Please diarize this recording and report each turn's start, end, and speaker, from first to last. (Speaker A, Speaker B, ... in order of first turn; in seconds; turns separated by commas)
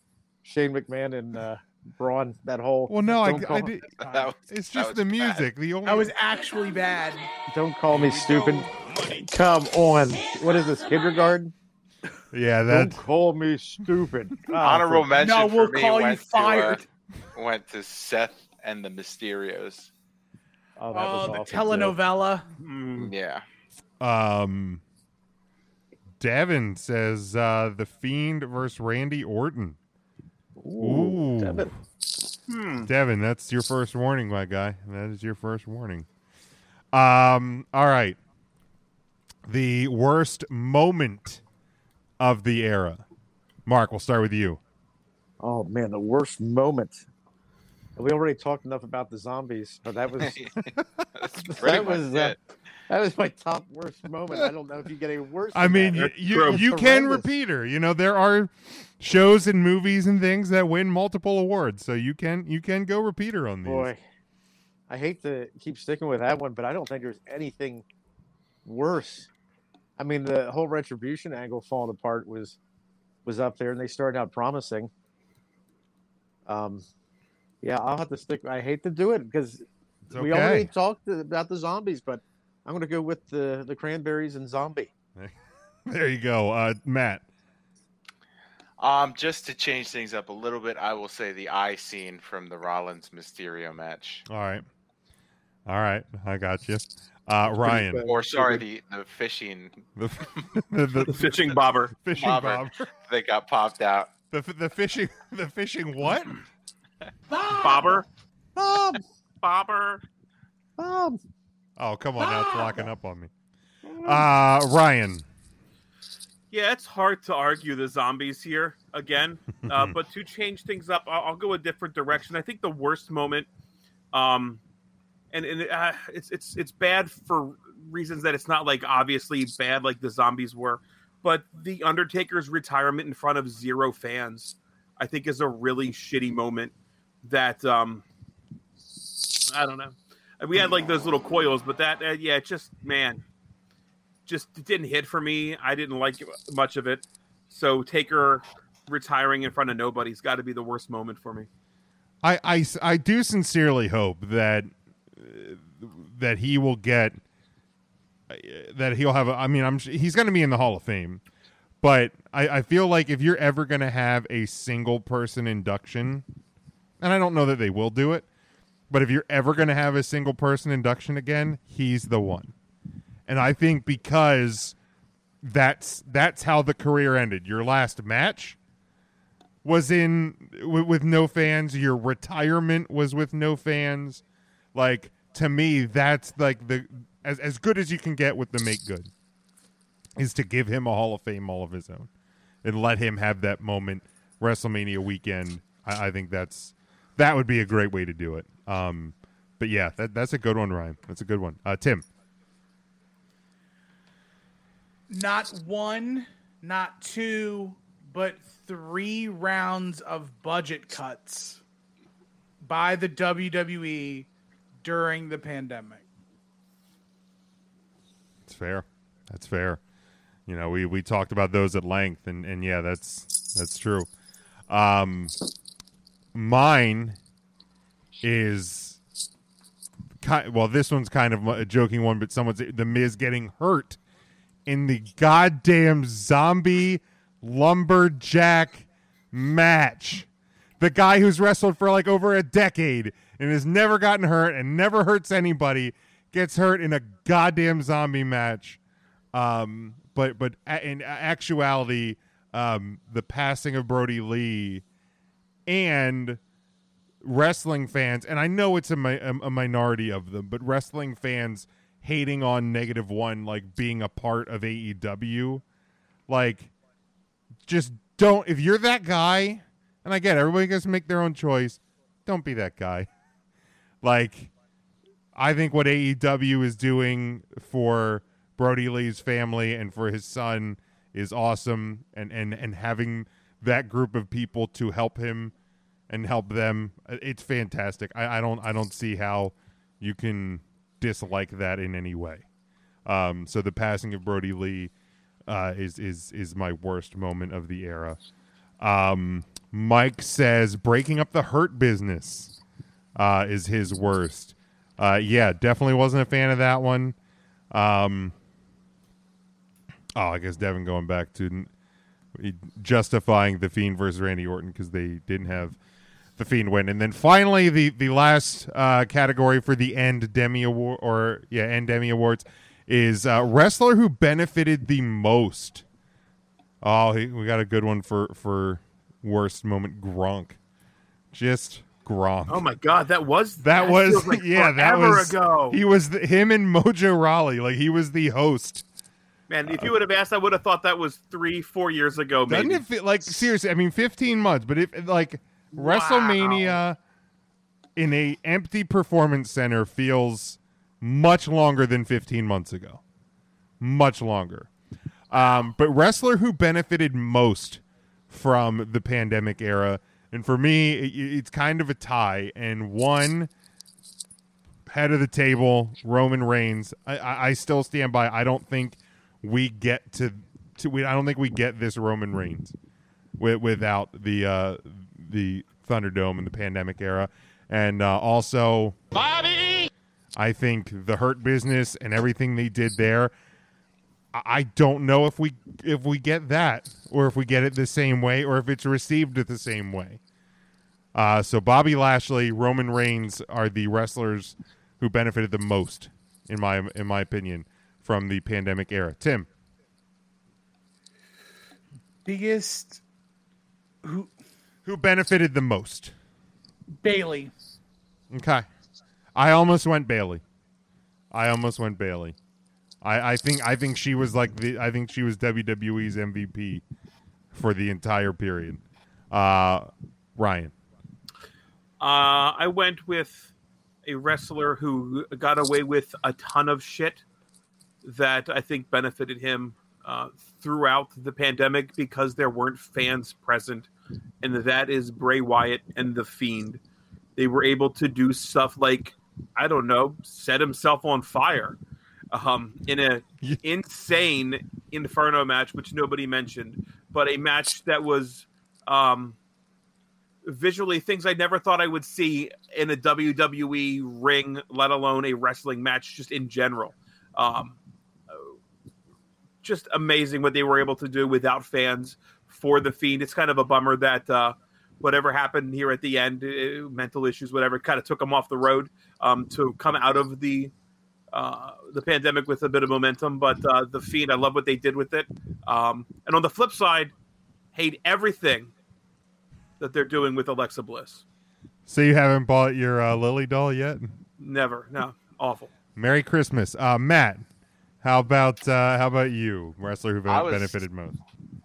Speaker A: 0.4-3.7, Speaker B: 2.9-3.9, Speaker C: 4.0-4.3, Speaker D: 4.0-5.5, Speaker B: 4.5-6.1, Speaker C: 5.8-7.3, Speaker A: 7.5-11.5, Speaker B: 12.3-13.0, Speaker A: 12.7-15.1, Speaker D: 14.6-16.8, Speaker C: 15.1-16.8, Speaker D: 17.4-19.9, Speaker A: 20.8-22.0, Speaker C: 20.9-22.5, Speaker E: 22.6-23.1, Speaker D: 23.0-23.4, Speaker B: 24.0-24.8, Speaker B: 26.2-29.8, Speaker A: 30.6-31.7, Speaker B: 30.8-31.7, Speaker E: 32.5-32.9, Speaker B: 32.9-36.1, Speaker B: 36.9-38.2, Speaker B: 39.5-41.4, Speaker B: 42.2-43.0, Speaker B: 43.7-44.6, Speaker A: 45.4-47.0, Speaker A: 48.0-50.4, Speaker D: 50.2-52.4, Speaker A: 51.5-52.4, Speaker A: 52.9-57.3, Speaker B: 55.5-63.9, Speaker E: 56.0-56.6, Speaker A: 63.6-64.0, Speaker A: 64.9-67.8, Speaker A: 68.7-69.3, Speaker A: 70.0-72.6, Speaker A: 73.2-74.9, Speaker A: 76.5-76.8, Speaker A: 77.6-84.9, Speaker B: 80.1-80.7, Speaker B: 85.9-87.2, Speaker D: 88.8-94.2, Speaker B: 94.3-94.7, Speaker B: 95.7-98.0, Speaker A: 97.5-98.7, Speaker D: 98.0-99.9, Speaker B: 100.0-101.4, Speaker E: 101.1-101.9, Speaker B: 102.0-102.9, Speaker D: 102.1-104.1, Speaker B: 104.3-106.4, Speaker E: 107.6-108.1, Speaker A: 108.6-109.0, Speaker E: 109.4-110.0, Speaker A: 110.8-111.2, Speaker B: 111.8-113.3, Speaker B: 114.0-115.2, Speaker E: 116.5-123.5, Speaker B: 119.6-120.0, Speaker E: 124.1-124.6, Speaker E: 125.3-138.0, Speaker E: 139.4-143.2, Speaker E: 144.3-151.5, Speaker B: 152.2-157.2, Speaker B: 158.3-161.2, Speaker B: 161.8-166.2, Speaker B: 167.0-168.3, Speaker B: 168.9-172.5, Speaker B: 173.3-174.8, Speaker B: 175.4-178.6, Speaker B: 179.6-184.2, Speaker B: 184.8-189.1, Speaker B: 190.2-192.1, Speaker B: 192.6-202.1, Speaker C: 205.1-211.6, Speaker C: 212.6-214.3, Speaker C: 214.8-216.1, Speaker B: 218.5-219.8, Speaker B: 220.5-224.1, Speaker B: 224.7-225.3, Speaker B: 226.3-227.2, Speaker B: 228.2-229.0, Speaker B: 230.2-234.0, Speaker B: 234.7-240.3, Speaker B: 240.8-248.8, Speaker B: 249.3-254.8, Speaker B: 255.7-256.4, Speaker B: 257.2-265.6, Speaker B: 266.3-266.7, Speaker B: 267.7-273.1, Speaker B: 274.0-274.5, Speaker B: 275.4-285.5, Speaker B: 286.1-292.4, Speaker B: 293.1-294.9, Speaker B: 295.5-298.2, Speaker B: 298.8-302.5, Speaker B: 303.2-307.1, Speaker B: 307.7-308.3, Speaker B: 310.1-311.7, Speaker B: 312.4-315.8, Speaker B: 316.4-325.8, Speaker B: 326.8-330.6, Speaker B: 331.3-332.7, Speaker E: 332.5-335.8, Speaker B: 333.6-338.8, Speaker E: 339.5-342.8, Speaker B: 339.7-339.9, Speaker B: 342.5-347.0, Speaker E: 345.7-346.8, Speaker B: 348.0-353.0, Speaker B: 353.8-354.7, Speaker B: 355.3-363.5, Speaker B: 364.9-372.7, Speaker B: 373.4-379.0, Speaker B: 380.4-383.3, Speaker B: 384.3-390.2, Speaker B: 391.1-399.5, Speaker C: 402.3-403.0, Speaker C: 404.0-404.3, Speaker B: 404.9-406.1, Speaker C: 407.0-407.5, Speaker B: 408.3-408.7, Speaker B: 409.4-410.4, Speaker B: 411.3-412.4, Speaker B: 413.0-416.8, Speaker B: 417.5-420.7, Speaker E: 422.0-423.5, Speaker E: 424.1-427.2, Speaker E: 428.0-433.9, Speaker E: 434.4-436.8, Speaker E: 437.4-441.8, Speaker E: 442.3-449.4, Speaker E: 450.4-457.8, Speaker E: 459.6-470.7, Speaker E: 471.3-477.1, Speaker E: 477.7-478.7, Speaker E: 479.8-481.2, Speaker B: 481.9-484.1, Speaker E: 484.4-485.7, Speaker B: 486.0-487.4, Speaker B: 488.0-491.2, Speaker D: 490.3-490.9